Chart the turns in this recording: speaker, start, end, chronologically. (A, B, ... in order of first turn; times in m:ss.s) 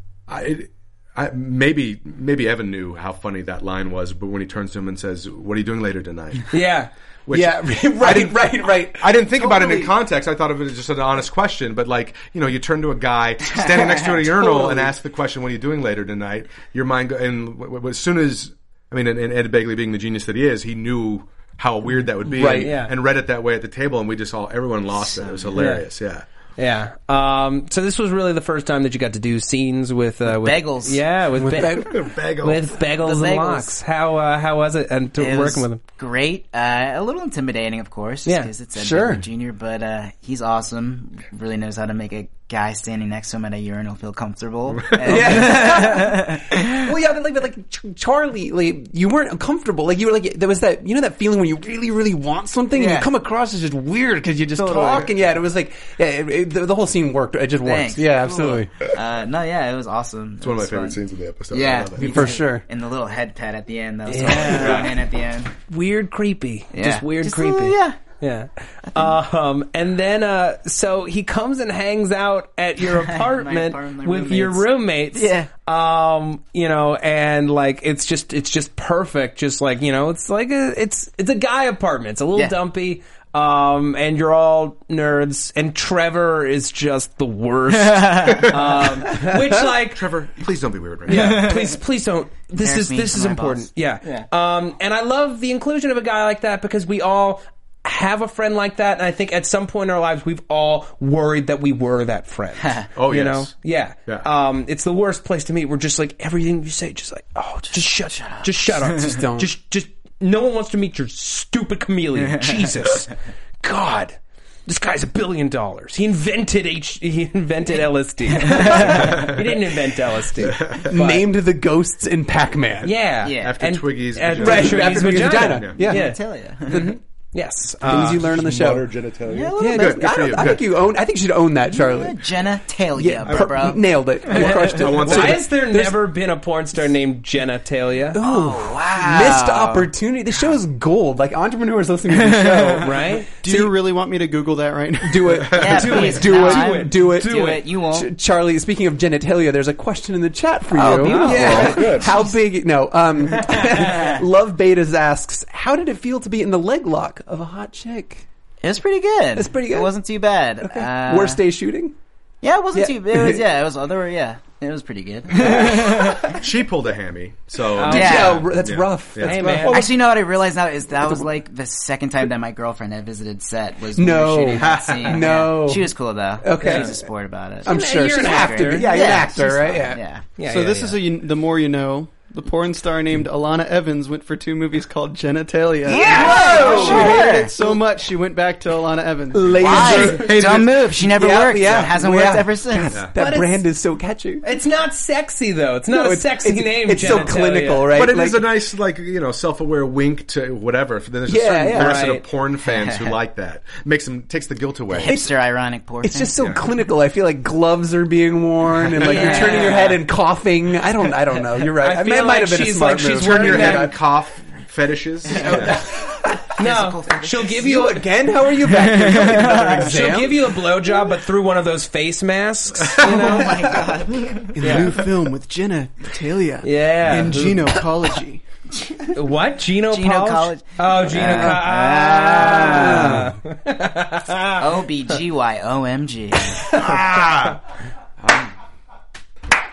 0:00.3-0:06.5 A
0:06.5-0:06.9 B
0:07.3-0:26.2 A
0:07.3-0:10.0 C
0:14.6-0:14.8 C
0:22.3-0:22.8 C
0:22.4-0:22.9 B
0:25.0-0:25.6 D
0:25.6-0:25.8 B
0:26.6-0:35.8 B
0:30.3-0:31.0 D
0:31.4-0:32.0 C
0:31.6-0:32.6 A
0:33.0-0:33.7 D
0:35.2-0:46.7 D
0:38.8-0:39.2 C
0:44.8-0:45.4 A
0:45.0-0:58.7 C
0:52.8-0:53.1 D
0:54.5-0:55.1 D
0:57.6-1:01.0 D
1:00.4-1:02.4 A
1:01.5-1:05.5 D
1:02.0-1:02.6 C
1:04.1-1:05.0 B
1:04.5-1:04.9 A
1:05.7-1:30.1 B
1:06.7-1:08.0 D
1:08.9-1:09.2 D
1:12.9-1:15.5 D
1:27.9-1:28.5 D
1:29.1-1:29.6 C
1:29.9-1:31.5 A
1:31.1-2:01.3 B
1:31.1-1:31.8 D
1:32.6-1:34.3 D
1:43.0-1:43.5 A
1:48.2-1:48.5 D
1:48.9-1:49.5 C
1:58.4-1:59.1 D
1:58.9-1:59.4 A
2:00.4-2:00.9 A
2:00.8-2:02.9 C
2:02.8-2:08.4 B
2:03.2-2:03.5 D
2:03.4-2:05.8 A
2:04.4-2:06.2 C
2:05.8-2:06.9 D
2:06.7-2:07.0 C
2:07.8-2:08.9 C
2:07.9-2:10.6 A
2:09.3-2:10.6 D
2:09.6-2:12.2 C
2:11.7-2:13.8 D
2:13.0-2:16.0 C
2:14.3-2:18.2 B
2:14.3-2:15.4 A
2:18.1-2:23.7 C
2:18.2-2:19.9 D
2:22.4-2:22.8 D
2:22.8-2:23.3 B
2:23.4-2:25.5 E
2:25.0-2:38.2 C
2:25.5-2:28.1 D
2:25.7-2:27.6 B
2:30.7-2:32.2 D
2:31.0-2:32.0 B
2:31.3-2:32.1 A
2:38.6-2:41.4 D
2:39.4-2:39.9 C
2:40.6-2:42.0 C
2:42.4-2:46.4 D
2:42.7-2:43.4 C
2:45.4-2:46.4 C
2:46.3-2:49.8 A
2:47.7-2:48.3 B
2:47.8-2:49.9 C
2:47.9-2:48.5 D
2:49.2-2:49.9 B
2:49.6-3:00.3 D
2:51.0-2:51.3 C
2:54.0-2:57.0 C
2:54.6-2:55.3 A
2:56.6-2:56.9 B
2:57.6-3:00.0 C
2:57.6-2:58.9 B
3:00.4-3:00.9 B
3:00.4-3:10.1 E
3:05.9-3:07.5 D
3:05.9-3:07.3 B
3:05.9-3:07.7 C
3:09.3-3:14.5 C
3:09.6-3:11.0 A
3:09.6-3:13.0 D
3:13.2-3:13.6 B
3:14.4-3:18.0 B
3:15.9-3:18.5 C
3:17.9-3:25.2 A
3:21.3-3:22.1 C
3:21.7-3:22.3 B
3:22.6-3:23.2 D
3:24.9-3:26.4 D
3:25.1-3:25.3 C
3:26.0-3:34.0 C
3:29.0-3:29.9 D
3:29.1-3:30.0 B
3:31.6-3:33.9 B
3:33.2-3:35.8 A
3:35.3-3:36.5 C
3:35.3-3:35.8 D
3:36.6-3:37.8 D
3:36.6-3:38.1 B
3:37.5-3:40.6 C
3:38.8-3:39.9 D
3:39.2-3:43.8 B
3:43.0-3:44.6 D
3:44.5-3:48.4 E
3:44.6-3:45.0 B
3:44.6-3:45.1 C
3:46.0-3:46.4 C
3:46.6-3:47.8 B
3:49.1-3:54.6 B
3:49.9-3:53.2 D
3:51.2-3:51.6 C
3:52.4-3:53.4 C
3:54.6-3:56.7 D
3:56.6-3:57.6 A
3:58.2-3:58.5 A